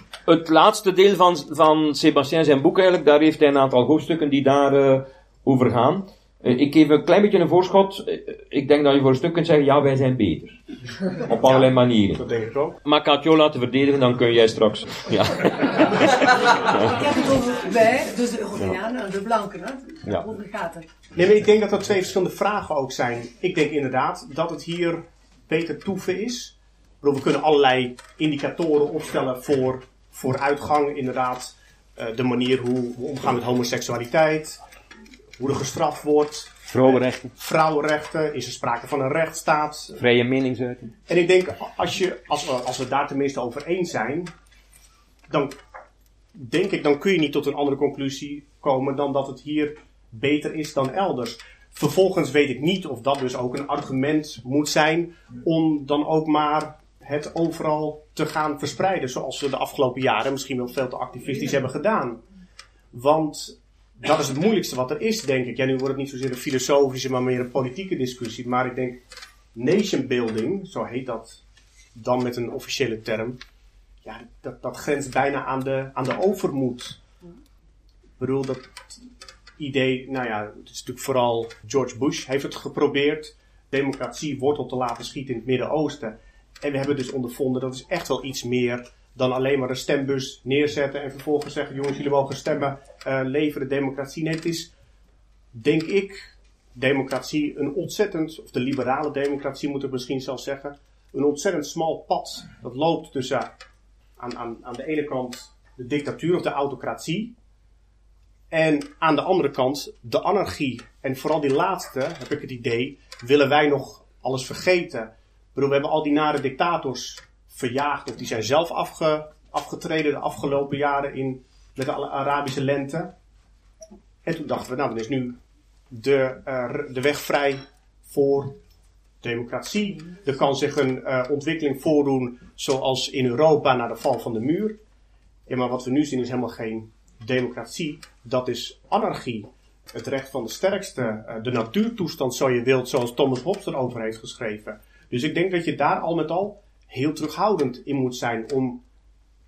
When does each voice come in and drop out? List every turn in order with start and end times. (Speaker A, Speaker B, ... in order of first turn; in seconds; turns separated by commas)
Speaker A: 0.3-10.6, Speaker A: 11.3-12.2, Speaker B: 11.4-12.8, Speaker A: 12.8-17.1, Speaker C: 16.9-20.9, Speaker B: 21.1-34.6, Speaker B: 35.4-40.0, Speaker A: 36.7-37.3, Speaker A: 39.9-40.9, Speaker B: 41.1-44.3, Speaker B: 45.3-45.5, Speaker B: 46.4-62.2, Speaker B: 62.9-69.0, Speaker B: 69.5-71.4, Speaker B: 72.0-73.4, Speaker B: 74.0-77.0, Speaker B: 78.2-78.9, Speaker B: 79.6-94.7, Speaker B: 95.5-103.5, Speaker B: 104.2-107.3, Speaker B: 108.5-123.1, Speaker B: 124.2-125.4, Speaker B: 125.9-128.6, Speaker B: 129.2-134.8, Speaker B: 135.5-148.8